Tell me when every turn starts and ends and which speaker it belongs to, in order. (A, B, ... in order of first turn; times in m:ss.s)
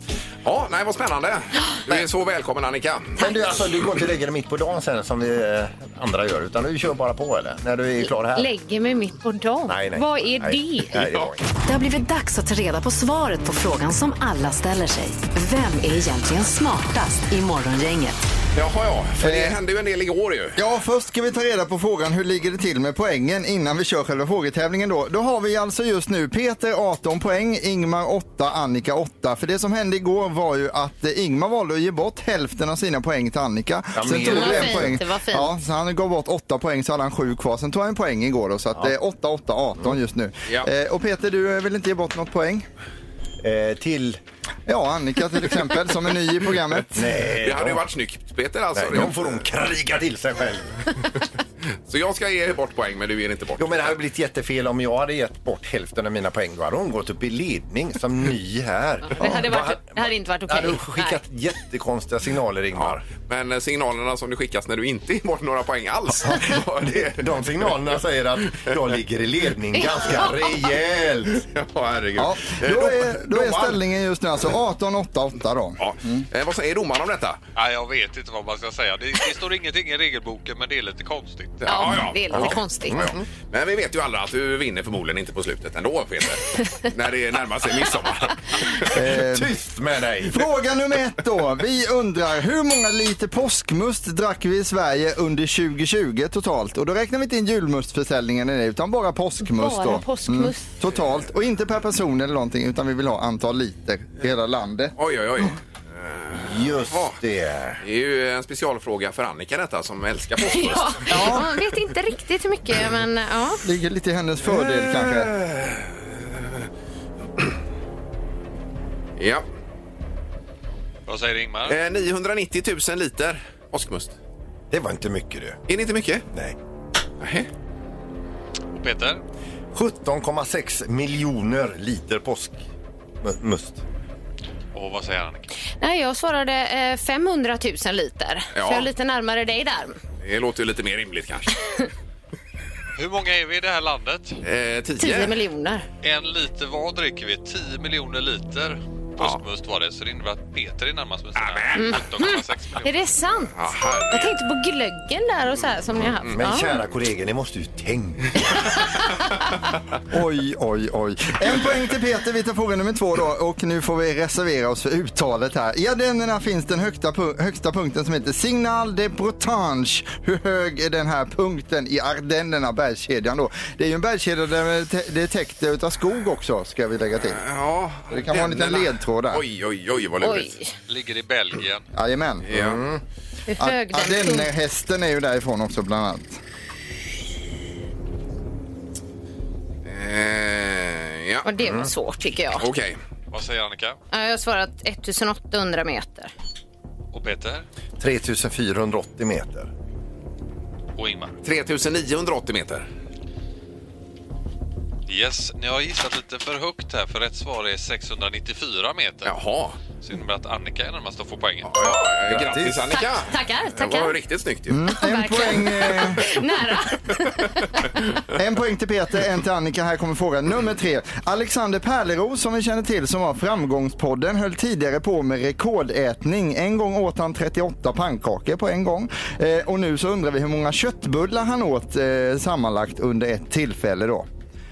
0:00.4-0:03.2 A
0:03.2-0:08.5 B
0:08.0-0:11.0 C
0:09.7-0:11.4 B
0:11.0-0:11.3 A
0:11.6-0:18.2 D
0:18.5-0:20.6 A
0:19.2-0:19.6 E
0:20.6-0:42.7 E
0:33.9-0:35.0 B
0:34.1-0:35.5 C
0:43.4-0:44.2 B
0:44.7-0:47.1 E
0:46.9-0:47.8 B
0:47.4-0:49.4 A
0:48.7-0:50.8 B
0:51.9-0:53.9 A
0:53.6-1:03.0 B
0:59.0-1:01.2 C
1:02.8-1:07.7 A
1:06.2-1:11.4 B
1:09.8-1:10.5 C
1:11.3-1:13.8 A
1:12.2-1:16.2 E
1:15.8-1:17.4 A
1:17.6-1:21.6 F
1:21.6-1:28.9 A
1:21.7-1:23.0 C
1:22.3-1:23.2 B
1:28.9-1:29.5 E
1:29.1-1:30.5 B
1:30.3-1:44.9 E
1:39.4-1:40.7 C
1:45.0-1:47.2 A
1:46.3-1:47.8 B
1:47.8-1:51.4 A
1:50.5-1:53.6 C
1:51.1-1:51.5 E
1:53.6-1:55.3 E
1:54.4-1:56.7 A
1:59.2-1:59.4 A
2:01.1-2:01.8 F
2:01.7-2:04.1 A
2:04.7-2:05.6 B
2:05.7-2:06.2 A
2:06.3-2:06.6 B
2:07.2-2:07.5 A
2:08.8-2:09.2 F
2:09.7-2:12.6 B
2:13.2-2:13.8 B
2:14.7-2:15.5 F
2:15.8-2:20.0 C
2:18.5-2:18.9 A
2:20.2-2:21.6 A
2:23.0-2:24.4 F
2:24.4-2:25.4 A
2:25.0-2:25.8 C
2:26.0-2:33.0 F
2:31.4-2:32.0 A
2:31.7-2:36.8 C
2:33.6-2:34.3 A
2:36.3-2:38.8 B
2:40.1-2:57.4 E
2:57.2-3:00.6 A
2:58.1-2:59.4 E
3:00.2-3:00.7 C
3:00.9-3:01.8 F
3:01.9-3:02.5 E
3:02.4-3:02.8 A
3:02.5-3:03.0 B
3:03.5-3:04.5 C
3:03.6-3:06.4 E
3:09.8-3:11.4 A
3:11.4-3:12.6 C
3:11.6-3:11.9 B
3:12.6-3:13.0 A
3:13.3-3:14.0 F
3:14.1-3:16.3 C
3:17.1-3:17.6 F
3:18.0-3:19.7 B
3:21.0-3:21.4 F
3:21.4-3:22.9 A
3:25.1-3:29.3 F
3:29.2-3:29.8 A
3:30.0-3:31.8 F
3:31.7-3:34.8 A
3:32.3-3:32.9 B
3:32.9-3:34.1 C
3:34.7-3:36.3 E
3:34.9-3:38.0 C
3:38.3-3:54.3 E